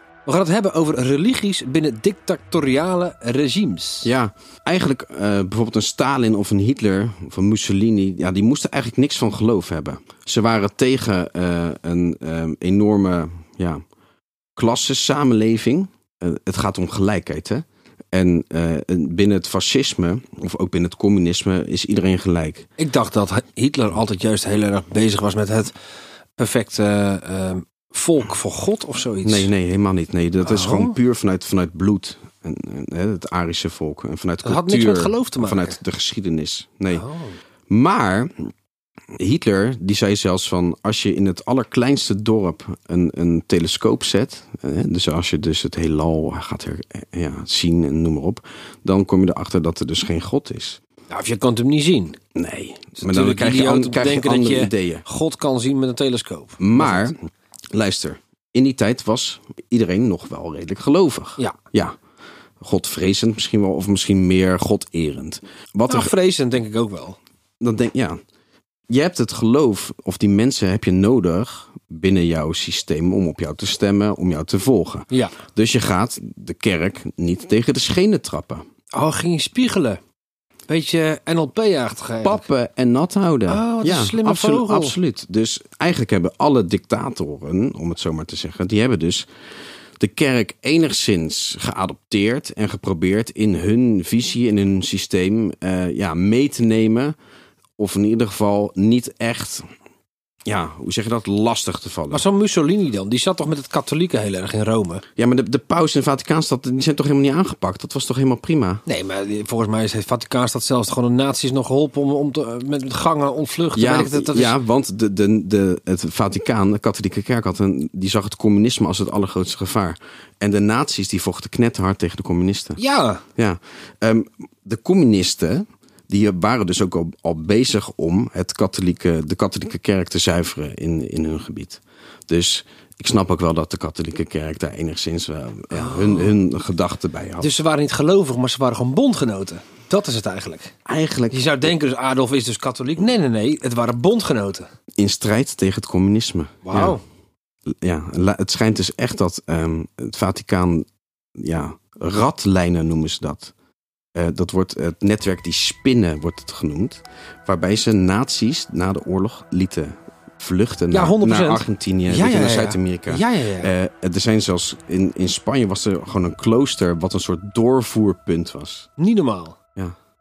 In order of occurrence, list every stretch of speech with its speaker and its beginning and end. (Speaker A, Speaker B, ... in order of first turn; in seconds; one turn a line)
Speaker A: 0.2-4.1
Speaker B: 4.0-13.8
Speaker B: 14.6-22.7
Speaker A: 22.8-25.7
Speaker A: 26.4-29.5
Speaker B: 29.2-37.0
Speaker A: 30.4-30.9
Speaker A: 34.4-35.8
Speaker A: 36.9-37.4
Speaker B: 37.7-38.5
Speaker B: 39.2-50.8
Speaker A: 51.1-52.2
Speaker B: 52.3-55.0
Speaker A: 53.0-57.1
Speaker B: 56.6-57.2
Speaker B: 57.7-62.0
Speaker B: 62.6-66.1
Speaker A: 65.9-67.2
Speaker B: 67.6-68.2
Speaker B: 68.9-78.6
Speaker A: 75.1-75.4
Speaker A: 78.9-80.0
Speaker A: 80.7-82.4
Speaker B: 82.2-89.3
Speaker A: 83.5-85.0
Speaker B: 90.0-97.1
Speaker B: 97.8-99.7
Speaker B: 100.5-102.2
Speaker A: 102.1-105.0
Speaker B: 105.2-108.8
Speaker A: 108.8-114.6
Speaker B: 113.7-122.8
Speaker A: 122.8-123.2
Speaker B: 123.4-137.5
Speaker A: 135.7-136.3
Speaker A: 137.4-140.7
Speaker B: 140.8-141.5
Speaker A: 141.3-144.7
Speaker B: 145.0-147.0
Speaker A: 146.6-147.0
Speaker B: 147.7-153.5
Speaker B: 154.1-168.9
Speaker A: 160.9-163.7
Speaker A: 169.0-169.6